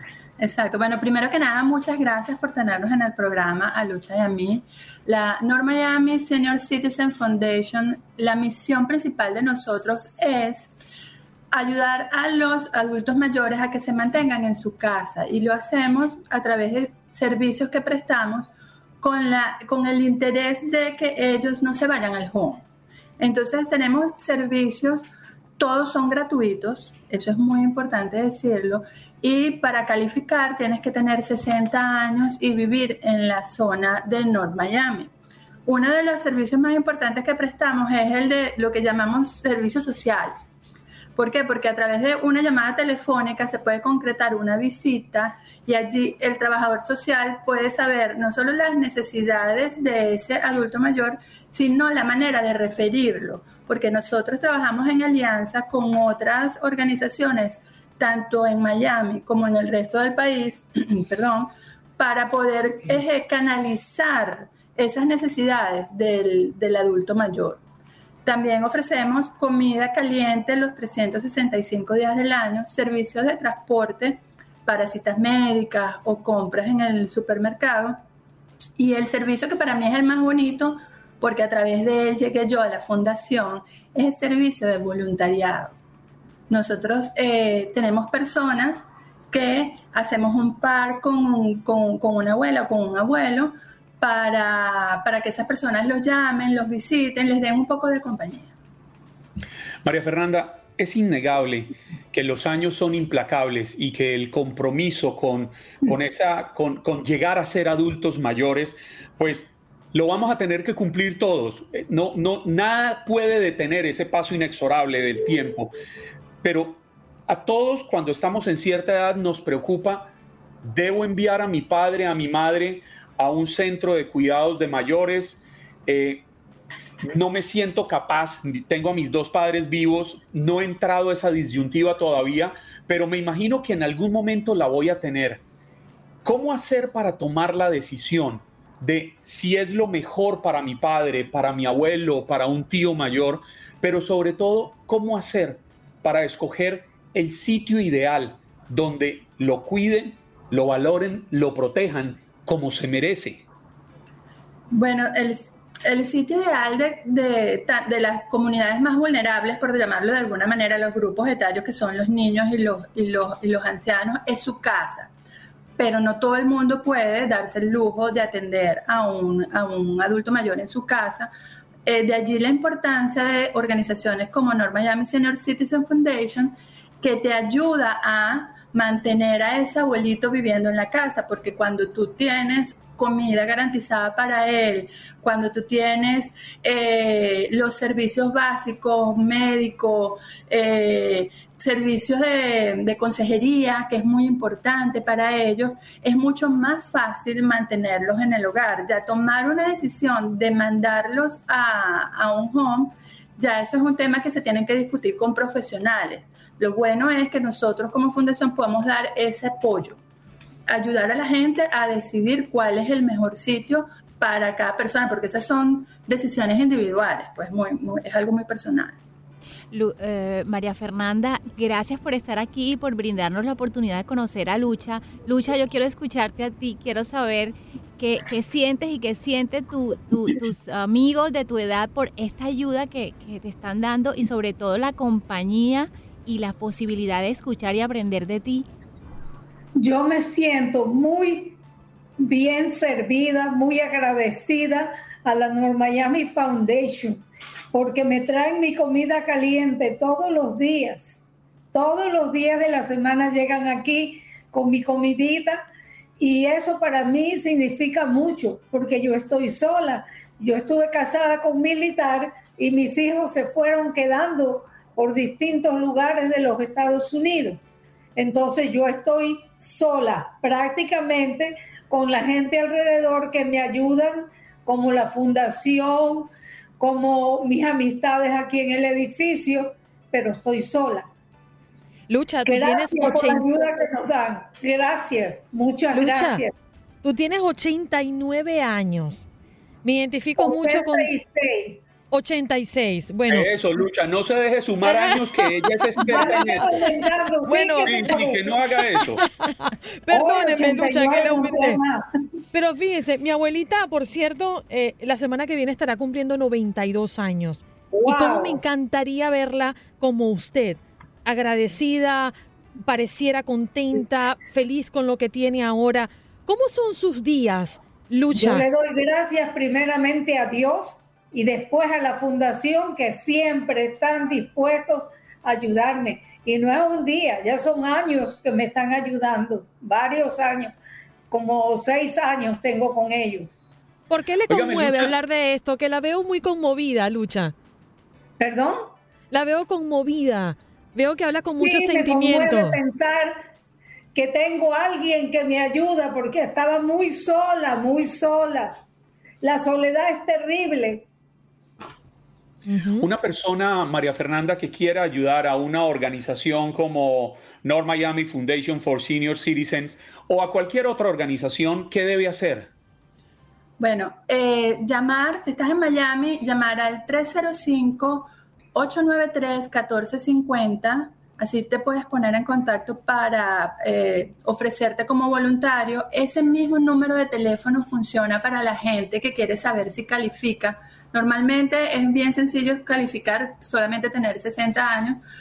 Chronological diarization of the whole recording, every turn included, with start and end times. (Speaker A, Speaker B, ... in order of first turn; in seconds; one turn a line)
Speaker A: 0.4-10.7
Speaker A: 11.5-18.5
Speaker A: 19.0-22.6
Speaker A: 23.2-35.1
Speaker A: 35.6-40.5
Speaker A: 41.1-67.6
Speaker A: 68.2-78.0
Speaker A: 78.8-85.8
Speaker A: 86.5-98.5
Speaker B: 99.8-115.7
Speaker B: 116.4-120.1
Speaker B: 120.6-126.2
Speaker B: 127.0-135.4
Speaker B: 136.2-153.4
Speaker A: 154.7-165.1
Speaker A: 165.8-171.3
Speaker A: 171.8-210.0
Speaker A: 210.7-219.0
Speaker C: 219.7-238.7
Speaker D: 239.8-241.6
Speaker D: 242.2-251.2
Speaker D: 251.7-255.6
Speaker D: 256.2-267.6
Speaker D: 268.1-281.1
Speaker E: 282.1-283.5
Speaker D: 282.4-286.5
Speaker E: 285.9-286.4
Speaker E: 287.0-289.2
Speaker E: 289.8-291.1
Speaker D: 290.4-291.8
Speaker E: 292.1-293.5
Speaker B: 293.3-296.9
Speaker E: 294.8-295.2
Speaker E: 296.0-296.6
Speaker D: 296.0-298.6
Speaker E: 297.4-298.1
Speaker B: 297.8-299.2
Speaker E: 299.4-301.8
Speaker D: 300.1-302.0
Speaker E: 302.5-312.3
Speaker D: 307.9-308.6
Speaker E: 312.9-318.6
Speaker D: 318.3-330.7
Speaker D: 331.3-333.6
Speaker E: 334.1-337.5
Speaker B: 334.5-335.1
Speaker D: 338.4-338.9
Speaker E: 339.3-342.8
Speaker D: 341.4-343.4
Speaker D: 344.1-348.8
Speaker D: 349.4-351.1
Speaker E: 352.7-353.1
Speaker B: 353.0-362.7
Speaker A: 363.8-385.2